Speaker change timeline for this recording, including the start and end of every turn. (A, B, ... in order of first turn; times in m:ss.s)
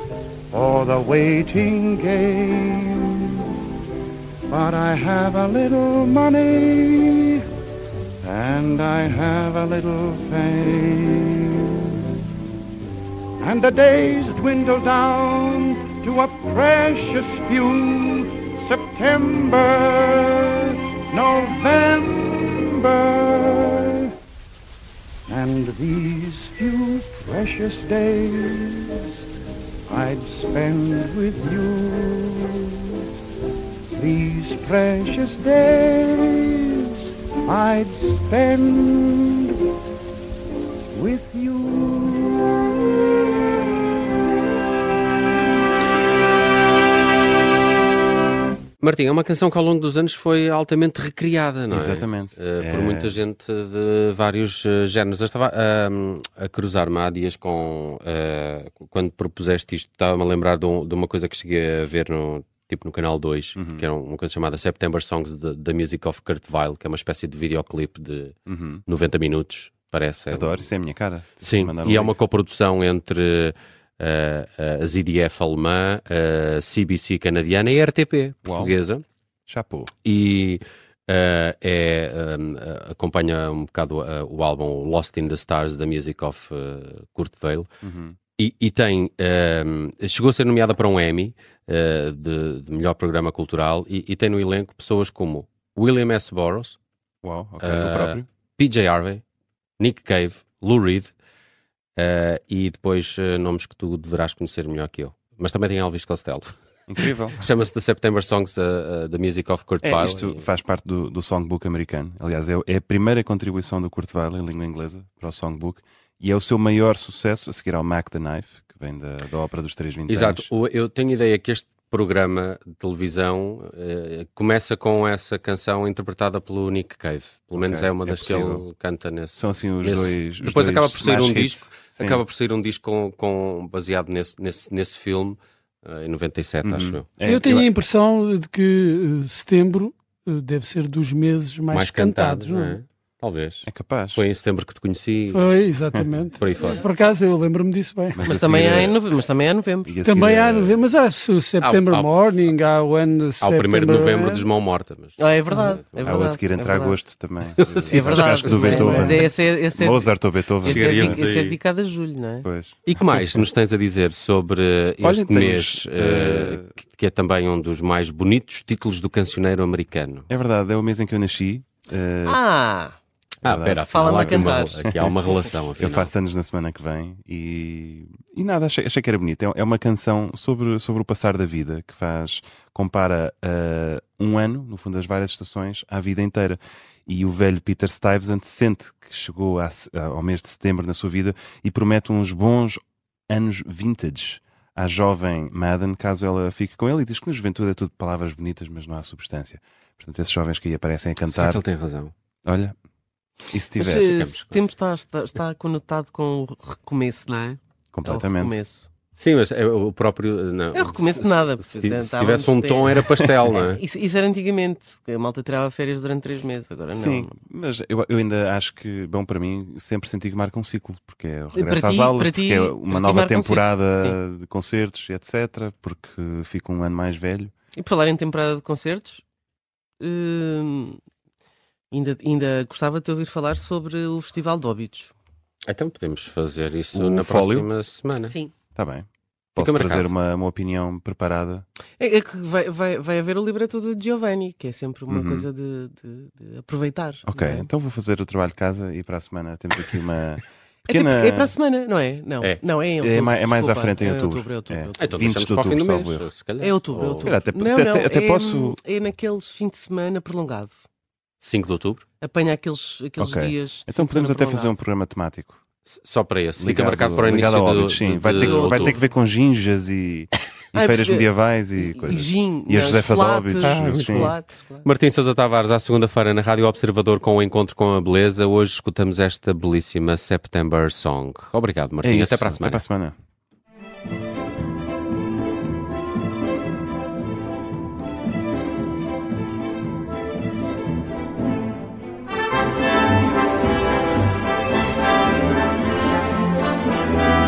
0:00.5-0:03.6 A
0:04.5-0:07.4 A
0:08.2-0:12.0 A
0:13.4-0:24.1 A
0:25.3-0:29.2 A
0:29.9-0:33.1 A
0:33.9-0:39.6 A
0:40.9-0:42.7 A
0:48.8-1:10.7 B
0:51.7-0:53.2 C
1:03.6-1:03.8 C
1:08.5-1:08.8 C
1:10.3-1:12.2 C
1:11.4-1:19.0 B
1:18.4-1:18.8 C
1:19.5-1:19.9 C
1:20.0-1:27.7 B
1:27.8-1:28.2 C
1:28.4-1:36.8 B
1:37.2-1:38.3 C
1:37.6-1:39.2 B
1:39.8-1:41.1 B
1:42.0-1:46.6 B
1:46.9-1:47.4 C
1:47.4-1:50.4 B
1:49.8-2:00.5 C
2:00.1-2:17.2 B
2:07.6-2:08.6 C
2:09.4-2:12.2 C
2:16.6-2:17.7 C
2:17.2-2:22.8 D
2:21.7-2:25.6 B
2:23.6-2:24.2 C
2:25.3-2:28.2 D
2:26.3-2:26.9 B
2:28.1-2:29.0 C
2:28.2-2:30.0 E
2:29.8-2:30.8 C
2:30.0-2:34.5 D
2:31.6-2:32.5 B
2:33.4-2:35.9 B
2:35.2-2:37.0 E
2:36.0-2:41.2 C
2:37.6-2:39.2 B
2:37.9-2:42.5 E
2:38.1-2:39.2 D
2:40.6-2:41.6 B
2:42.4-2:43.4 C
2:42.9-2:50.3 B
2:45.0-2:46.7 C
2:50.3-2:52.4 C
2:52.2-2:53.0 E
2:53.4-2:56.1 B
2:53.4-2:55.2 C
2:53.9-2:55.1 E
2:55.8-3:21.6 C
3:21.2-3:22.1 B
3:22.4-3:22.7 C
3:23.5-3:24.2 C
3:23.8-3:28.9 E
3:24.2-3:24.7 B
3:27.9-3:28.6 C
3:29.2-3:33.8 B
3:30.7-3:37.3 E
3:36.9-3:47.5 C
3:41.5-3:44.2 E
3:47.8-3:49.2 E
3:50.0-3:51.0 E
3:51.9-3:55.1 E
3:55.7-3:58.4 B
3:56.9-3:57.7 C
3:58.2-3:58.5 E
3:58.8-4:01.6 C
3:59.6-4:00.1 B
4:02.0-4:07.7 E
4:05.1-4:05.5 C
4:07.2-4:11.6 C
4:10.9-4:15.1 E
4:13.0-4:16.3 C
4:15.0-4:17.4 B
4:16.6-4:20.8 E
4:17.2-4:18.8 C
4:21.4-4:22.0 B
4:22.2-4:24.8 E
4:23.2-4:25.6 C
4:25.8-4:29.0 B
4:26.6-4:34.3 C
4:28.3-4:29.0 E
4:30.7-4:34.9 E
4:33.6-4:42.8 B
4:42.0-4:43.2 C